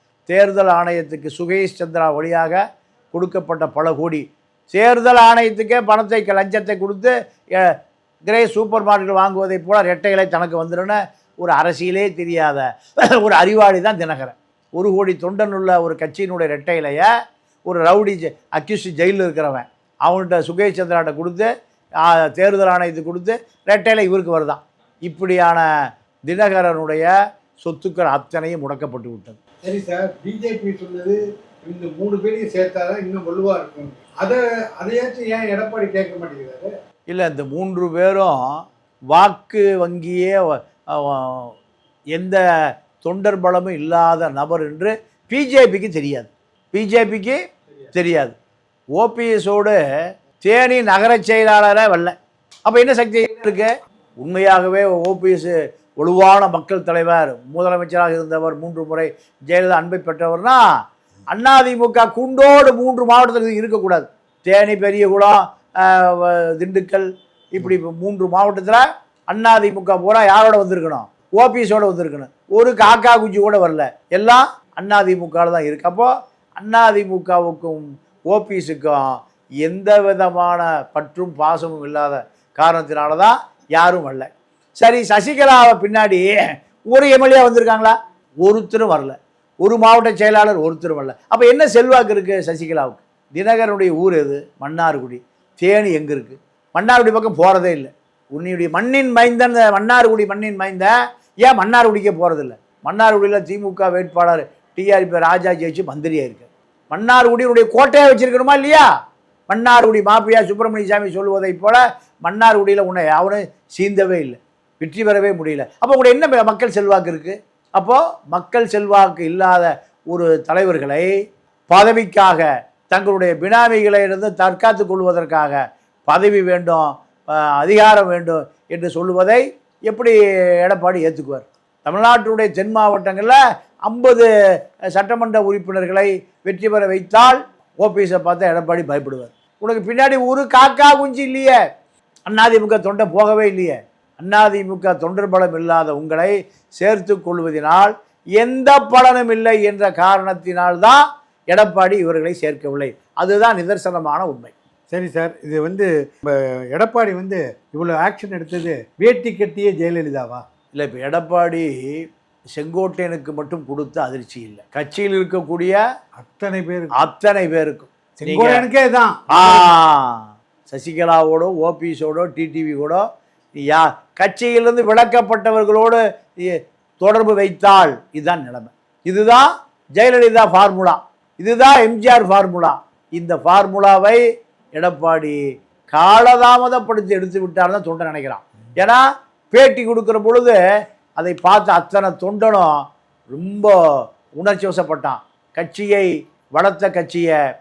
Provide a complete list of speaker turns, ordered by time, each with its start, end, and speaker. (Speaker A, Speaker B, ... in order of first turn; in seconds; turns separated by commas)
Speaker A: 0.3-2.6, Speaker A: 3.1-7.7, Speaker A: 8.2-17.1, Speaker A: 17.7-21.5, Speaker A: 22.0-25.6, Speaker A: 26.3-29.4, Speaker B: 29.6-36.7, Speaker A: 37.1-38.5, Speaker A: 39.1-41.6, Speaker A: 42.1-47.4, Speaker A: 47.9-48.4, Speaker A: 49.0-49.8, Speaker A: 50.4-52.1, Speaker A: 52.7-53.7, Speaker A: 54.2-60.6, Speaker A: 61.3-84.3, Speaker A: 84.8-86.3, Speaker A: 86.9-108.9, Speaker A: 109.5-121.1, Speaker A: 121.7-134.3, Speaker A: 134.9-141.6, Speaker A: 142.3-154.5, Speaker B: 154.9-160.4, Speaker A: 160.7-162.0, Speaker A: 162.6-165.8, Speaker B: 166.2-166.9, Speaker A: 166.9-168.7, Speaker B: 168.2-169.7, Speaker A: 169.3-173.1, Speaker A: 173.6-184.2, Speaker A: 184.8-185.4, Speaker A: 185.9-190.6, Speaker A: 191.2-197.4